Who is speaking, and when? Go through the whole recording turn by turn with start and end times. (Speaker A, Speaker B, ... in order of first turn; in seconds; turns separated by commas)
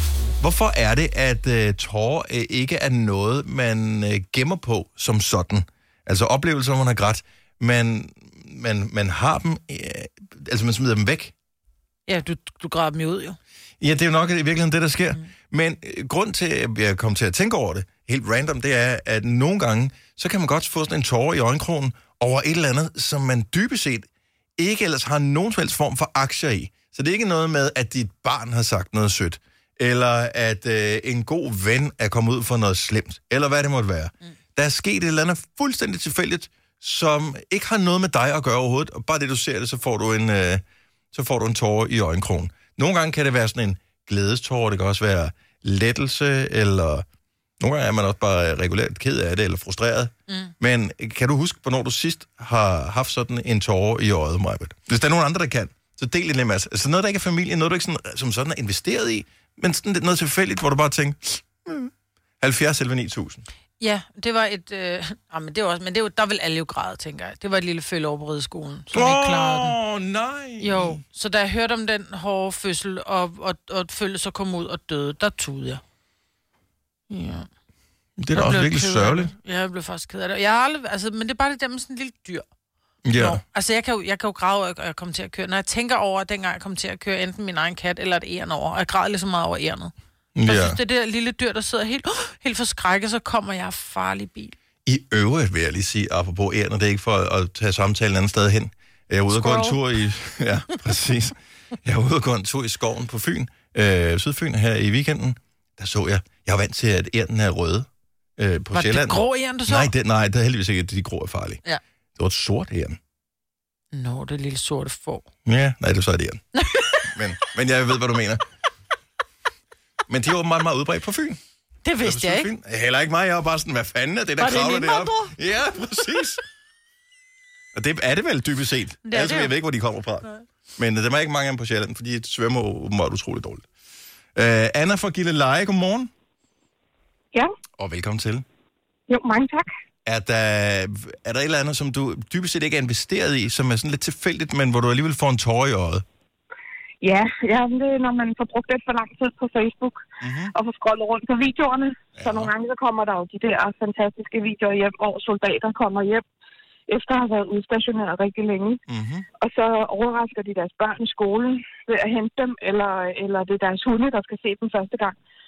Speaker A: 0.4-11.3, Speaker B: 12.1-13.4, Speaker A: 13.8-47.0, Speaker A: 47.6-63.4, Speaker B: 63.8-69.8, Speaker A: 68.9-71.0, Speaker B: 70.6-75.8, Speaker B: 77.1-77.5, Speaker A: 78.2-79.3, Speaker B: 78.3-82.5, Speaker A: 83.0-83.4, Speaker B: 83.1-89.9, Speaker A: 90.3-90.8, Speaker B: 90.5-94.5, Speaker A: 94.8-107.9, Speaker B: 99.3-99.8, Speaker A: 108.4-111.6, Speaker B: 108.7-109.9, Speaker A: 112.2-113.0, Speaker B: 113.9-115.3, Speaker A: 115.5-116.4, Speaker B: 116.6-117.1, Speaker A: 117.0-118.4, Speaker A: 120.1-121.4, Speaker B: 121.8-122.5, Speaker A: 122.0-126.4, Speaker B: 124.4-125.3, Speaker A: 127.7-133.7, Speaker B: 129.0-129.5, Speaker A: 134.3-136.1, Speaker A: 137.8-138.4, Speaker C: 139.1-139.7, Speaker A: 140.0-146.0, Speaker C: 147.0-156.2, Speaker A: 150.2-150.5, Speaker A: 152.2-152.5, Speaker C: 156.9-158.8, Speaker A: 158.9-159.2, Speaker C: 159.4-165.1